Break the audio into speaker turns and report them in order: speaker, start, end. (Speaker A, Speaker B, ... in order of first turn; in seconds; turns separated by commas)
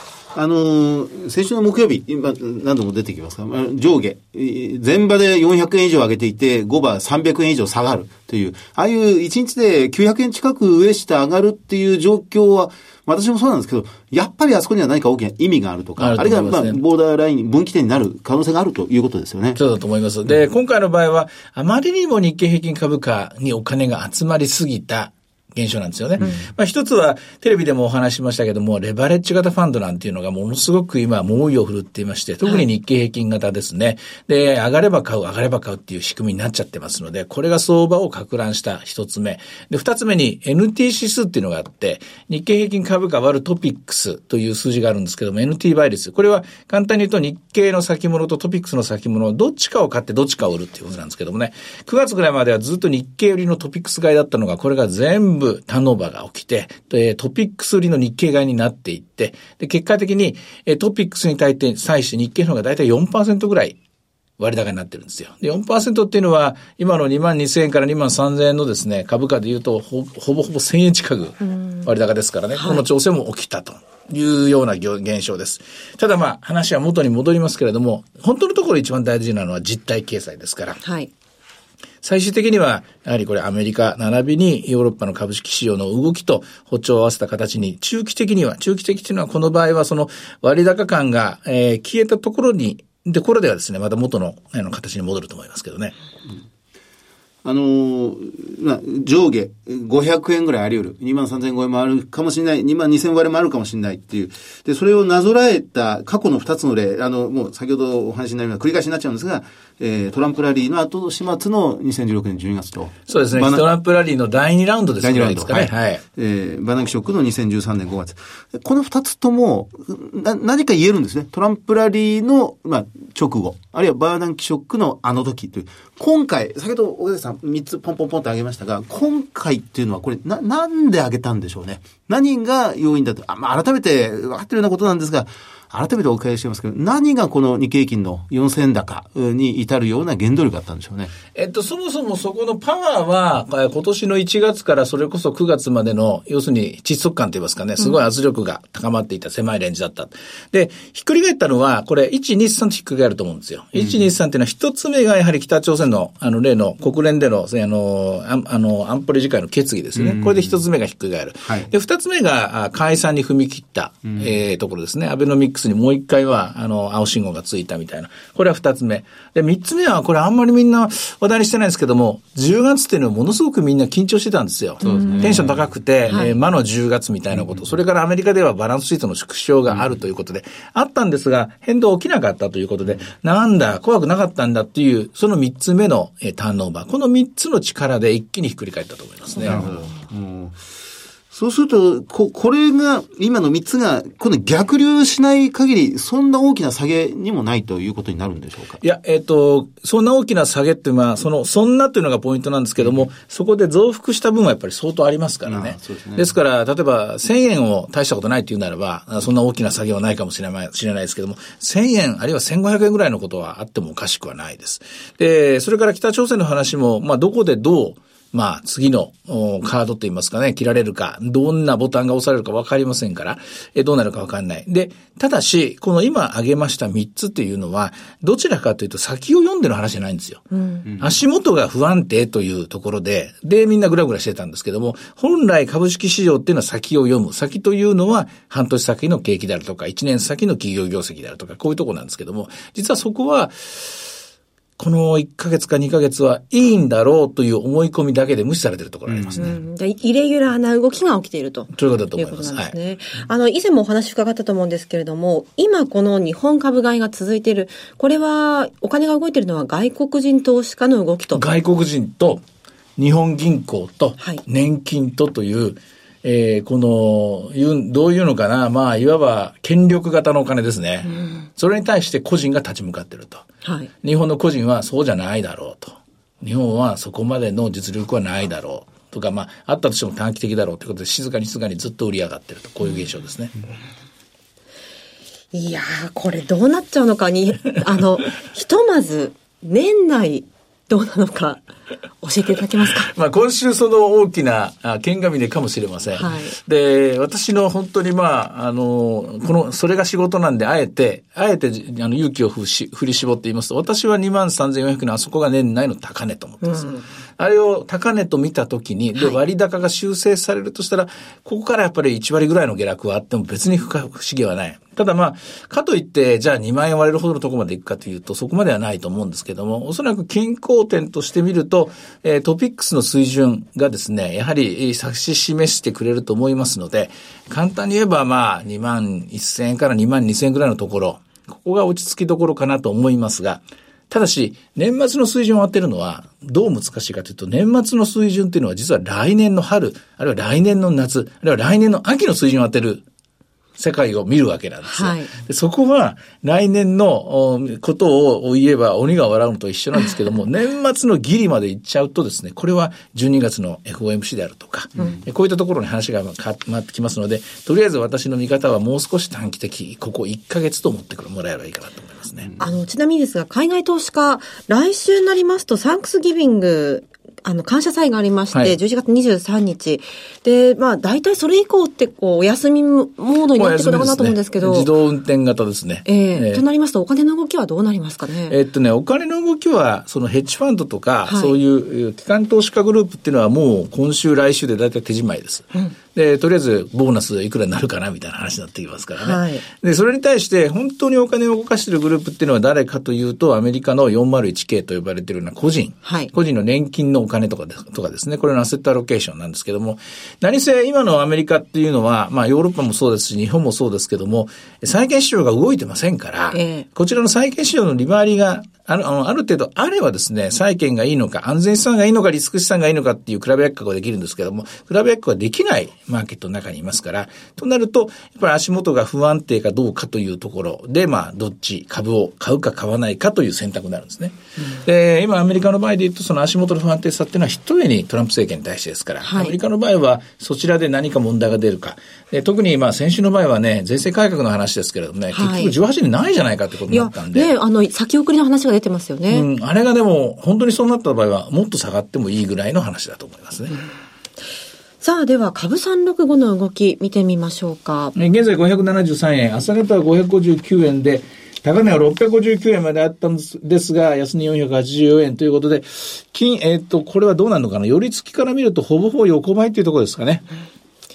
Speaker A: 0.3-19.6, Speaker B: 16.0-16.8, Speaker B: 19.6-63.8, Speaker B: 64.4-80.8, Speaker C: 71.6-71.8, Speaker C: 72.6-72.8, Speaker C: 80.8-81.1, Speaker B: 82.0-96.0, Speaker A: 97.4-113.7, Speaker B: 113.1-116.0, Speaker A: 115.0-141.1, Speaker B: 141.3-189.9, Speaker A: 153.8-154.0, Speaker A: 159.9-160.6, Speaker A: 161.5-161.7, Speaker A: 174.8-175.7, Speaker C: 174.8-175.2, Speaker C: 176.1-176.3, Speaker A: 177.3-177.7, Speaker A: 179.7-179.9, Speaker A: 189.4-190.6, Speaker A: 191.3-198.8, Speaker B: 198.8-230.4, Speaker A: 205.5-206.3, Speaker C: 230.5-230.8, Speaker B: 231.0-243.9, Speaker B: 244.8-249.6, Speaker A: 249.1-249.4, Speaker C: 249.4-261.5, Speaker B: 251.7-252.8, Speaker B: 261.4-262.4, Speaker B: 263.0-273.5, Speaker C: 273.6-273.9, Speaker B: 274.0-283.5, Speaker C: 285.5-291.6, Speaker C: 292.2-293.1, Speaker B: 293.0-343.0, Speaker C: 296.1-296.6, Speaker C: 306.6-307.0, Speaker B: 343.8-362.5, Speaker C: 344.9-345.3, Speaker A: 355.0-355.2, Speaker C: 362.6-374.9, Speaker B: 373.6-376.6, Speaker C: 376.1-378.6, Speaker B: 378.5-437.5, Speaker C: 381.3-381.6, Speaker C: 389.2-389.6, Speaker C: 396.1-396.3, Speaker C: 406.5-406.9, Speaker C: 429.2-429.6, Speaker C: 435.3-435.7, Speaker C: 436.9-439.5, Speaker B: 439.3-443.8, Speaker C: 445.0-448.1, Speaker B: 448.1-460.5